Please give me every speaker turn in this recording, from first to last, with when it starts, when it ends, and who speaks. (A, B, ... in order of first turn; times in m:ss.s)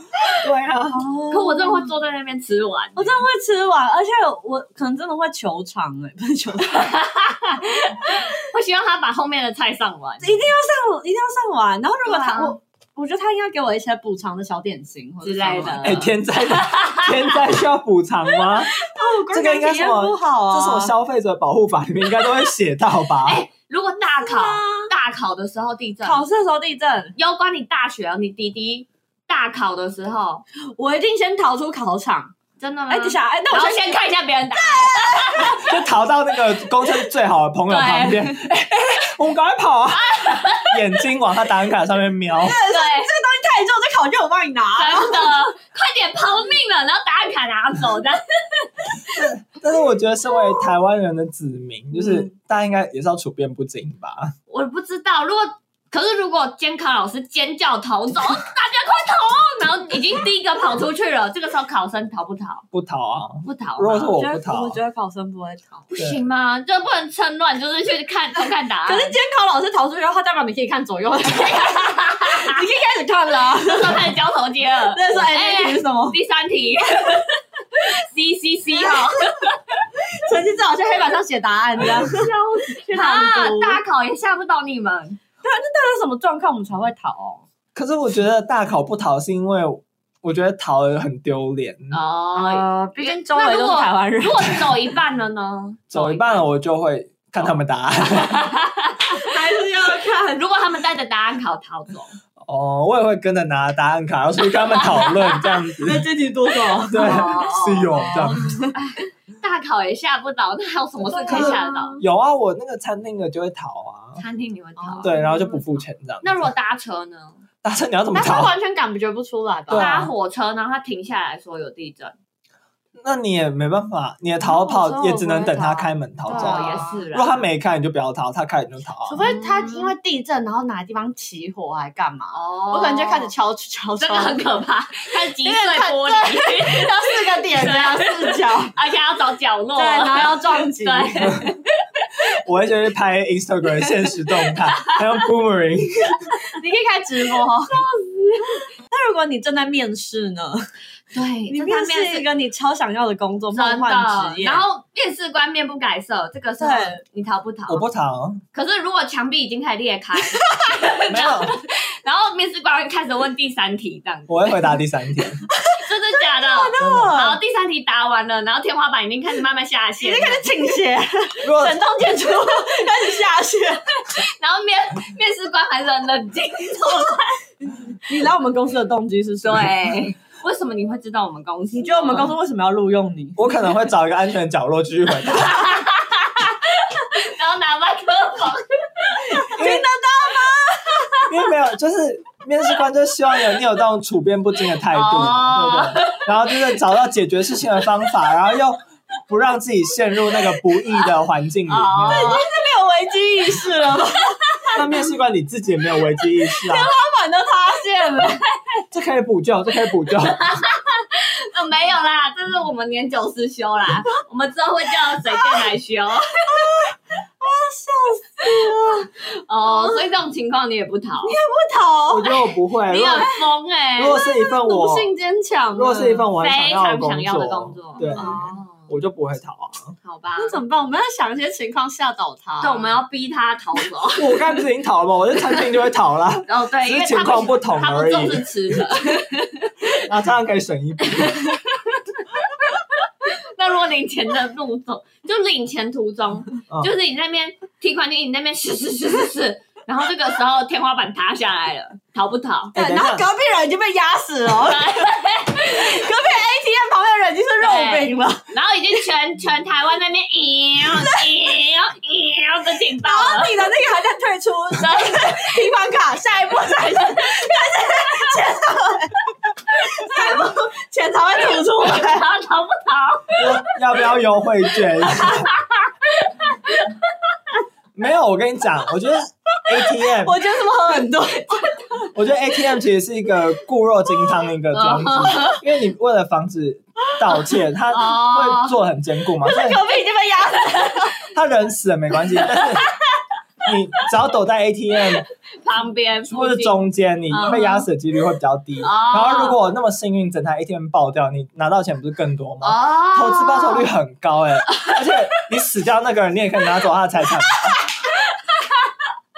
0:00.4-0:01.0 A
0:00.9-0:01.9 B
0:01.3-0:03.2 C
0:03.0-0:06.9 B
0:06.7-0:10.5 C
0:10.2-0:16.1 B
0:12.0-0:12.6 C
0:15.2-0:17.4 C
0:15.8-0:18.7 A
0:18.7-0:21.0 B
0:19.3-0:23.4 A
0:23.2-0:26.3 C
0:24.2-0:24.9 B
0:26.0-0:27.2 B
0:27.2-0:30.4 C
0:30.8-0:32.3 B
0:32.6-0:35.7 C
0:32.9-0:34.0 B
0:34.6-0:35.6 B
0:35.4-0:42.6 A
0:37.7-0:38.5 C
0:39.9-0:41.0 C
0:42.4-0:45.3 B
0:42.7-0:43.1 C
0:44.8-0:49.2 C
0:49.1-0:54.3 A
0:54.5-1:02.6 C
1:02.7-1:04.8 A
1:03.4-1:04.2 C
1:04.2-1:05.9 B
1:05.9-1:09.2 C
1:08.8-1:14.1 B
1:11.3-1:12.6 C
1:13.6-1:19.8 C
1:14.9-1:16.2 B
1:20.1-1:23.8 B
1:22.0-1:25.2 C
1:25.4-1:27.4 B
1:27.8-1:32.0 A
1:31.9-1:36.5 C
1:32.4-1:34.8 B
1:35.9-1:38.5 A
1:38.1-1:39.2 C
1:39.1-1:40.5 B
1:40.1-1:42.2 C
1:42.4-1:46.1 A
1:44.7-1:45.6 C
1:45.8-1:48.8 B
1:46.9-1:48.6 A
1:46.9-1:48.2 C
1:48.7-1:52.0 C
1:51.1-1:52.0 B
1:51.2-1:54.2 A
1:54.2-1:55.2 C
1:54.8-1:55.7 B
1:55.0-1:56.5 A
1:56.2-1:57.4 C
1:57.6-1:58.5 A
1:58.1-2:00.0 B
1:59.7-2:00.1 A
1:59.7-2:02.2 C
2:03.0-2:09.2 A
2:04.4-2:07.0 B
2:06.3-2:07.5 C
2:09.1-2:14.5 B
2:09.2-2:09.9 C
2:12.3-2:13.3 C
2:14.0-2:22.3 C
2:15.4-2:18.7 B
2:19.8-2:21.4 B
2:22.4-2:26.3 A
2:24.5-2:25.1 C
2:26.5-2:27.8 B
2:27.7-2:28.6 C
2:28.4-2:30.7 B
2:31.1-2:32.3 C
2:31.5-2:34.6 B
2:33.5-2:37.8 C
2:36.6-2:37.0 B
2:37.7-2:38.4 A
2:38.5-2:44.8 C
2:40.4-2:40.8 B
2:41.1-2:41.6 A
2:44.3-2:45.4 A
2:45.7-2:47.4 B
2:45.7-2:50.8 C
2:46.8-2:47.2 A
2:50.0-2:53.9 B
2:51.4-2:51.8 A
2:54.0-2:57.4 C
2:57.6-3:00.1 B
2:59.4-3:02.3 C
3:01.7-3:03.4 B
3:03.4-3:05.7 A
3:05.3-3:09.5 C
3:09.2-3:11.2 B
3:09.5-3:09.8 A
3:11.3-3:22.4 A
3:14.9-3:16.3 C
3:21.7-3:22.5 C
3:22.1-3:24.8 B
3:24.7-3:26.9 A
3:26.6-3:28.4 B
3:28.9-3:30.6 A
3:30.2-3:36.8 C
3:36.5-3:39.1 B
3:38.6-3:41.4 C
3:39.6-3:40.0 B
3:41.2-3:42.5 B
3:42.1-3:43.3 A
3:42.9-3:44.2 C
3:44.0-3:45.1 A
3:44.2-3:46.3 B
3:45.8-3:50.0 A
3:46.4-3:48.9 C
3:48.0-3:48.6 B
3:50.0-3:50.6 C
3:50.4-3:53.0 B
3:52.6-3:54.4 C
3:54.2-3:58.8 A
3:56.5-4:00.0 C
4:00.0-4:01.4 A
4:01.5-4:12.7 C
4:12.7-4:18.5 B
4:12.8-4:13.3 A
4:14.6-4:16.1 C
4:17.6-4:23.7 C
4:20.9-4:21.3 B
4:23.0-4:32.2 B
4:24.7-4:25.7 C
4:30.1-4:30.3 C
4:31.5-4:33.9 C
4:33.4-4:35.5 A
4:34.8-4:37.2 C
4:38.0-4:40.4 A
4:40.2-4:42.1 B
4:42.1-4:49.8 A
4:44.7-4:45.6 C
4:47.9-4:48.8 C
4:49.4-4:51.2 B
4:51.3-4:52.9 A
4:53.6-4:55.2 A
4:55.6-4:57.9 C
4:56.3-5:07.8 A
4:58.8-4:59.6 C
5:02.6-5:03.9 C
5:04.7-5:05.2 C
5:07.4-5:09.0 C